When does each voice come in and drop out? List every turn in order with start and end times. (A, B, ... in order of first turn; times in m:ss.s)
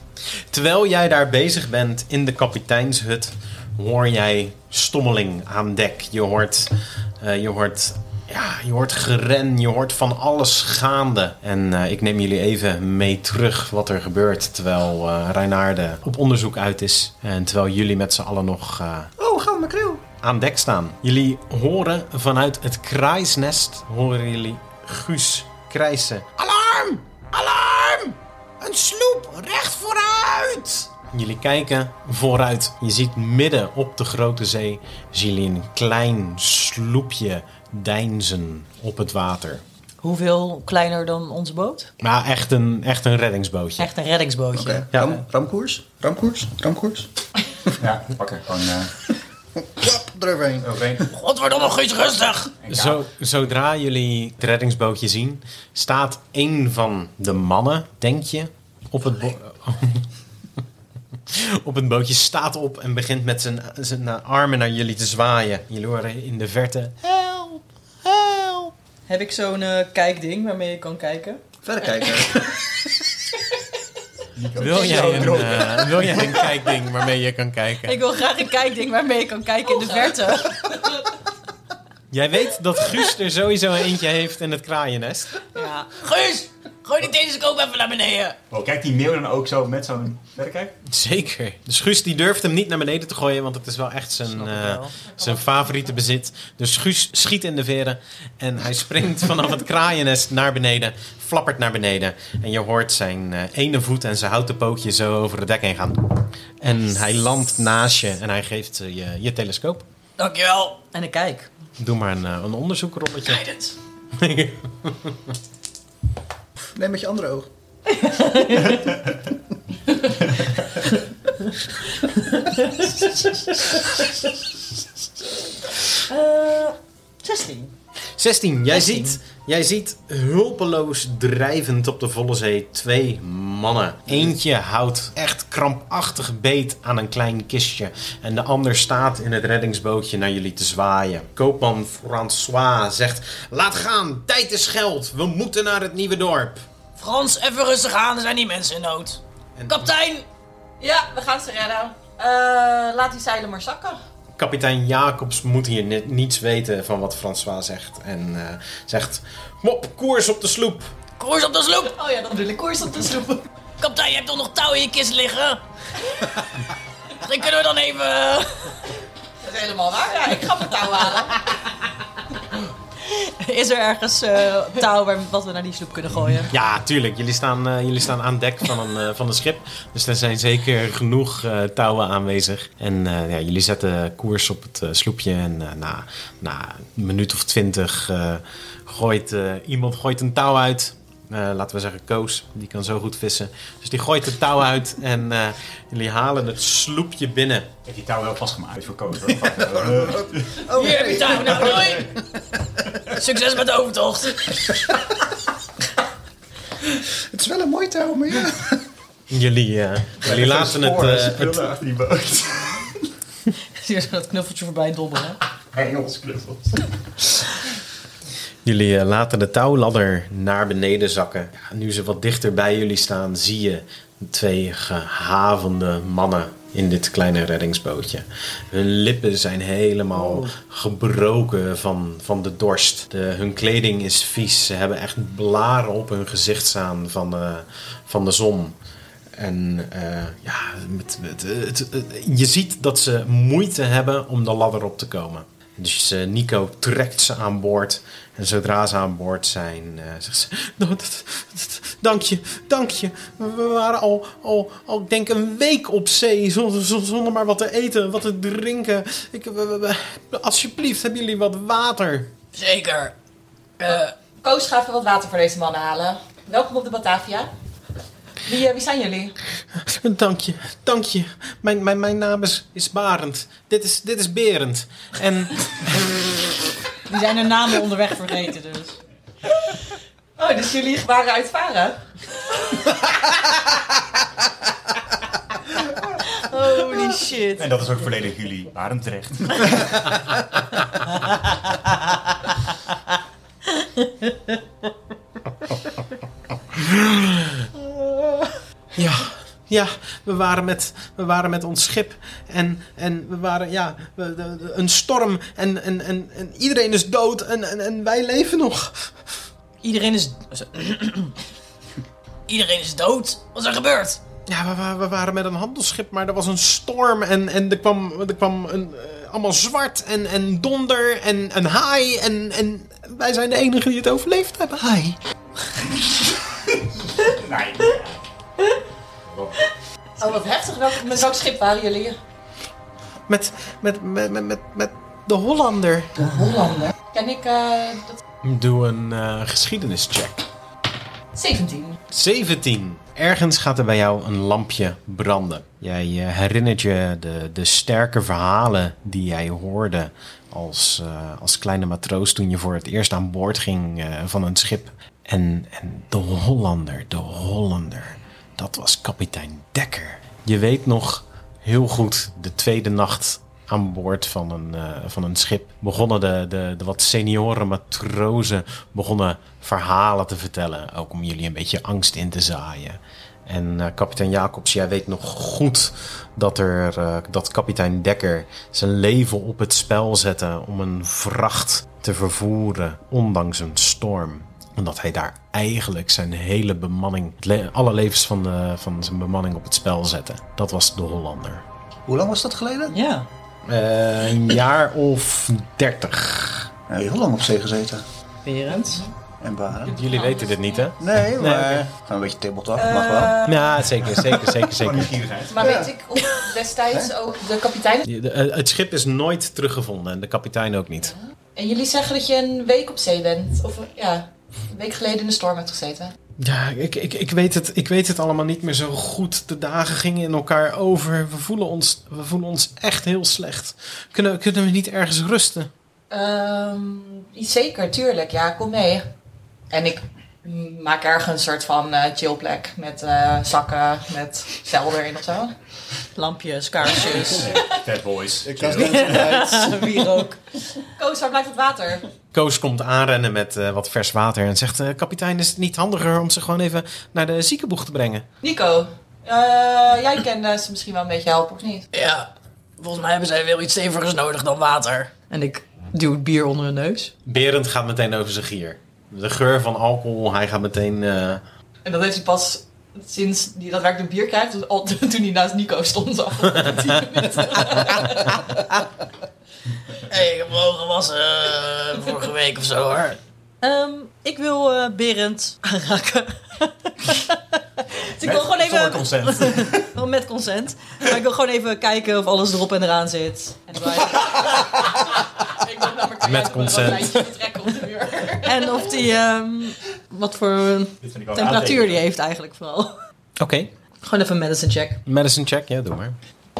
0:00.5-0:19.1 A
0:19.2-0:20.0 B
0:20.2-0:39.6 A
0:40.0-0:41.9 C
0:42.0-0:43.9 A
0:43.8-0:45.1 C
0:44.5-0:47.1 B
0:44.9-0:45.2 A
0:47.8-0:49.0 D
0:49.6-0:50.7 B
0:50.6-0:51.1 D
0:51.1-0:52.5 E
0:52.6-0:53.1 D
0:52.7-1:00.1 A
1:01.3-1:08.7 A
1:09.1-1:11.4 C
1:11.6-1:12.6 B
1:14.3-1:16.5 D
1:14.6-1:18.0 A
1:15.0-1:15.4 C
1:17.8-1:20.8 C
1:22.1-1:25.4 A
1:25.6-1:25.9 C
1:25.6-1:28.3 E
1:28.5-1:30.8 D
1:30.9-1:49.8 A
1:34.3-1:34.9 C
1:35.2-1:35.6 F
1:50.2-1:50.9 E
1:50.8-1:51.5 C
1:51.8-1:53.4 A
1:53.3-1:53.7 E
1:54.2-1:55.1 A
1:56.7-1:57.5 B
1:57.9-1:59.0 C
2:02.3-2:04.0 C
2:06.1-2:07.7 C
2:08.2-2:26.6 A
2:08.7-2:09.2 C
2:27.0-2:30.2 E
2:29.6-2:29.9 A
2:30.8-2:34.0 F
2:34.4-2:40.9 A
2:41.2-2:41.9 E
2:41.9-2:43.5 F
2:43.8-2:45.6 E
2:47.2-2:48.8 E
2:49.4-2:51.6 F
2:53.0-2:56.5 C
2:56.5-3:17.7 A
3:17.8-3:20.6 D
3:19.4-3:22.2 B
3:20.7-3:22.2 E
3:23.1-3:24.6 E
3:27.1-3:28.8 B
3:29.3-3:31.7 A
3:30.2-3:33.0 D
3:33.8-3:35.4 C
3:35.7-3:36.8 D
3:38.6-3:58.8 A
3:59.4-4:22.3 A
4:22.5-4:23.1 E
4:23.8-4:24.1 E
4:23.9-4:27.5 F
4:28.4-4:29.3 F
4:29.8-4:36.7 A
4:37.1-4:39.0 C
4:40.4-4:42.0 F
4:46.3-4:47.7 C
4:47.5-4:50.0 D
4:56.8-4:57.7 A
4:59.0-5:09.2 A
5:09.8-5:11.3 E
5:12.5-5:14.2 E
5:14.5-5:24.8 A
5:24.8-5:25.2 B
5:26.1-5:28.2 D
5:29.2-5:29.7 D
5:30.2-5:32.2 F
5:33.3-5:36.3 A
5:36.2-5:38.2 F
5:38.4-5:40.4 A
5:41.3-5:42.0 F
5:42.1-6:31.6 A
6:32.1-6:32.9 B
6:32.9-6:33.3 C
6:33.6-6:36.7 A
6:36.9-6:38.0 B
6:38.4-6:39.0 C
6:38.8-6:39.1 F
6:39.4-6:40.0 B
6:39.9-6:40.9 F
6:39.9-6:41.8 A
6:41.0-6:43.4 B
6:42.8-6:43.9 F
6:43.4-6:45.2 A
6:44.6-6:45.8 D
6:45.5-6:48.1 F
6:45.6-6:45.9 B
6:48.1-6:51.1 A
6:51.1-6:56.1 F
6:56.4-7:05.7 A
7:06.1-7:09.0 F
7:09.7-7:15.5 F
7:16.2-7:17.4 C
7:17.0-7:17.8 F
7:17.2-7:19.4 D
7:18.4-7:20.1 B
7:18.8-7:20.4 C
7:21.0-7:22.1 F
7:22.3-7:28.2 A
7:28.4-7:31.9 F
7:31.9-7:35.2 E
7:35.3-7:37.1 C
7:37.2-7:41.4 A
7:41.8-7:48.6 F
7:50.1-7:53.2 E
7:53.6-8:04.6 C
7:57.9-7:59.9 D
8:04.2-8:09.0 F
8:06.2-8:07.2 A
8:08.4-8:13.0 C
8:11.0-8:12.0 D
8:13.4-8:13.7 A
8:14.0-8:15.0 C
8:15.0-8:16.2 A